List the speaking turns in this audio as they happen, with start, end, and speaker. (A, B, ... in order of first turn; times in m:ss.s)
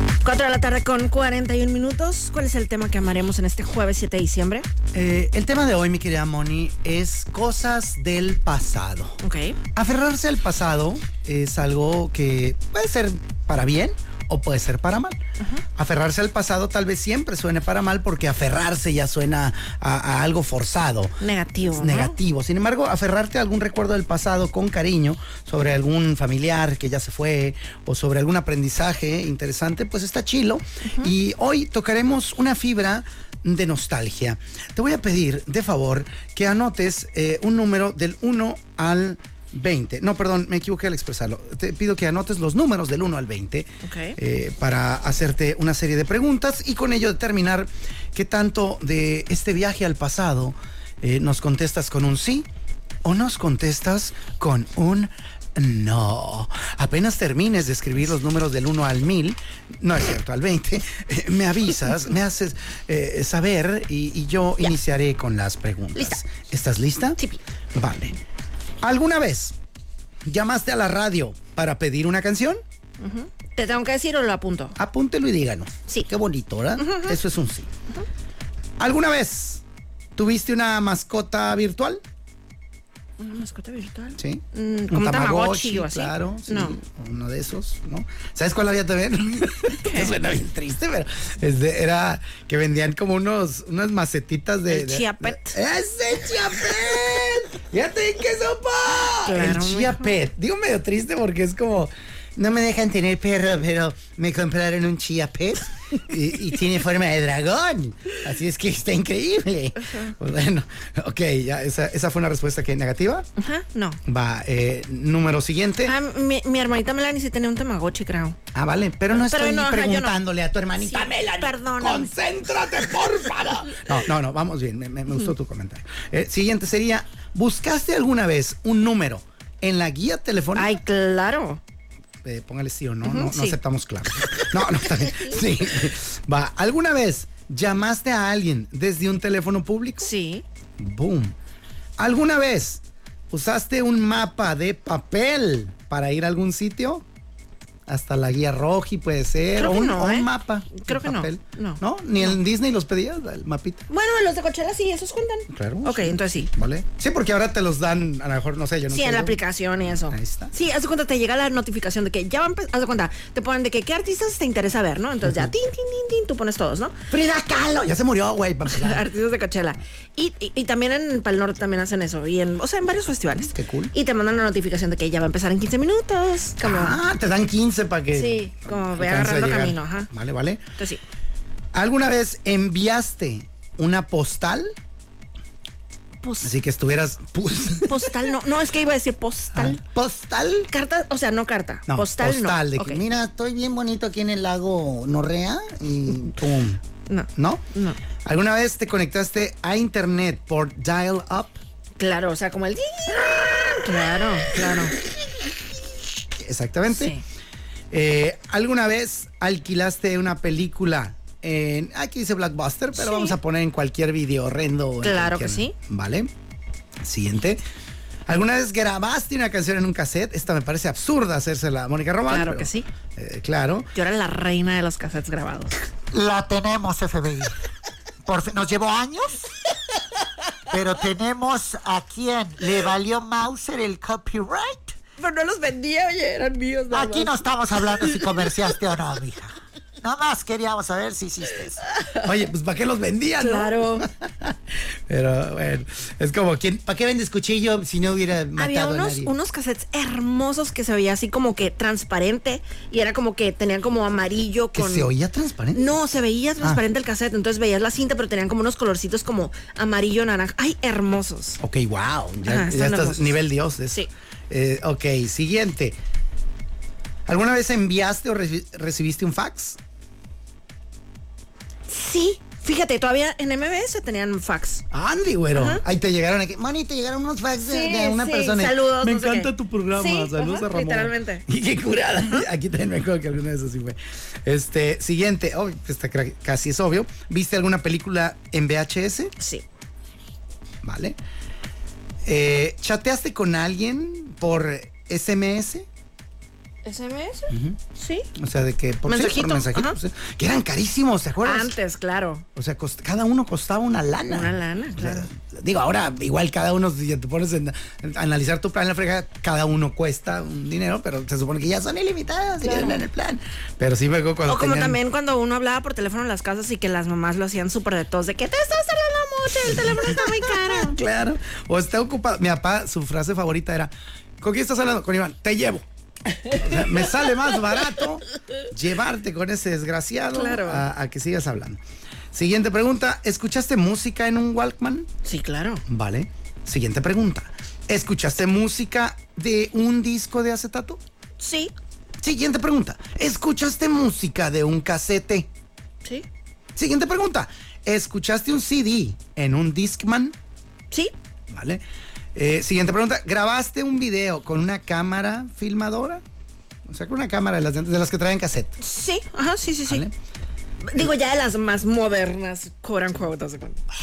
0:00.2-0:04.7 A
0:04.9-0:09.2 B
0:09.2-0:09.6 A
0:09.7-0:15.2 B
0:15.8-0:52.5 B
0:21.2-0:22.2 A
0:30.8-0:31.1 A
0:43.8-0:44.2 A
0:53.0-1:07.2 B
1:07.7-1:08.2 B
1:08.8-1:09.5 B
1:10.2-1:12.6 B
1:13.0-1:14.8 A
1:14.8-1:17.7 B
1:16.8-1:17.2 A
1:18.8-1:19.6 B
1:20.2-1:22.0 B
1:23.2-1:26.8 A
1:24.2-1:53.3 B
1:29.7-1:30.1 A
1:34.7-1:35.6 A
1:39.2-1:40.2 A
1:49.8-1:50.1 A
1:53.4-1:54.0 A
1:54.0-1:55.9 B
1:55.8-1:58.4 A
1:58.5-2:10.8 B
1:59.1-2:00.2 A
2:00.8-2:02.1 A
2:10.6-2:11.6 A
2:12.2-2:20.1 B
2:13.0-2:13.6 A
2:14.3-2:15.4 A
2:20.0-2:20.4 A
2:20.8-2:21.3 B
2:22.0-2:27.0 B
2:27.9-2:33.8 B
2:29.5-2:32.4 A
2:33.9-2:36.5 A
2:35.5-2:40.5 B
2:38.9-2:47.0 A
2:45.2-2:45.5 B
2:47.1-2:49.1 B
2:48.7-2:57.0 A
2:53.4-2:53.9 B
2:56.6-3:00.6 B
2:58.1-3:00.1 A
3:01.7-3:04.7 B
3:06.2-3:06.5 A
3:06.4-3:08.1 B
3:07.8-3:09.8 A
3:09.5-3:10.7 B
3:10.7-3:13.0 A
3:11.9-3:16.8 B
3:17.1-3:18.0 A
3:17.4-3:17.6 B
3:18.2-3:21.6 B
3:22.0-3:25.0 A
3:26.3-3:27.1 B
3:26.9-3:27.2 A
3:27.9-3:36.3 B
3:32.9-3:33.4 A
3:35.0-3:35.7 A
3:37.0-3:37.6 B
3:38.3-3:43.9 B
3:42.3-3:42.9 A
3:43.9-3:45.7 A
3:46.1-3:47.5 C
3:48.2-3:49.4 C
3:50.7-3:54.9 C
3:55.2-3:57.4 A
3:56.9-4:01.8 C
4:02.2-4:04.6 B
4:03.4-4:04.1 A
4:05.1-4:09.3 B
4:08.6-4:15.1 A
4:14.7-4:16.0 B
4:15.7-4:21.6 A
4:21.6-4:26.0 B
4:22.4-4:23.4 A
4:27.2-4:29.8 B
4:31.9-4:34.8 A
4:34.9-4:49.3 B
4:35.5-4:35.8 A
4:37.6-4:41.4 A
4:50.8-4:51.2 B
4:52.2-4:55.9 B
4:56.8-4:58.3 A
4:57.5-4:57.8 B
4:58.3-5:01.7 B
4:59.1-5:00.0 A
5:01.4-5:02.4 A
5:02.6-5:15.0 B
5:04.3-5:05.3 A
5:12.6-5:13.0 A
5:14.5-5:21.0 A
5:19.6-5:25.8 B
5:26.5-5:31.8 B
5:30.3-5:30.8 A
5:32.3-5:35.1 B
5:35.2-5:35.8 A
5:35.8-5:41.0 B
5:41.4-5:41.7 A
5:42.2-5:45.5 B
5:46.8-5:50.3 B
5:51.5-5:51.8 B
5:52.3-5:56.2 B
5:56.9-5:58.8 B
5:58.8-6:00.0 A
5:59.9-6:00.1 B
6:00.8-6:03.8 A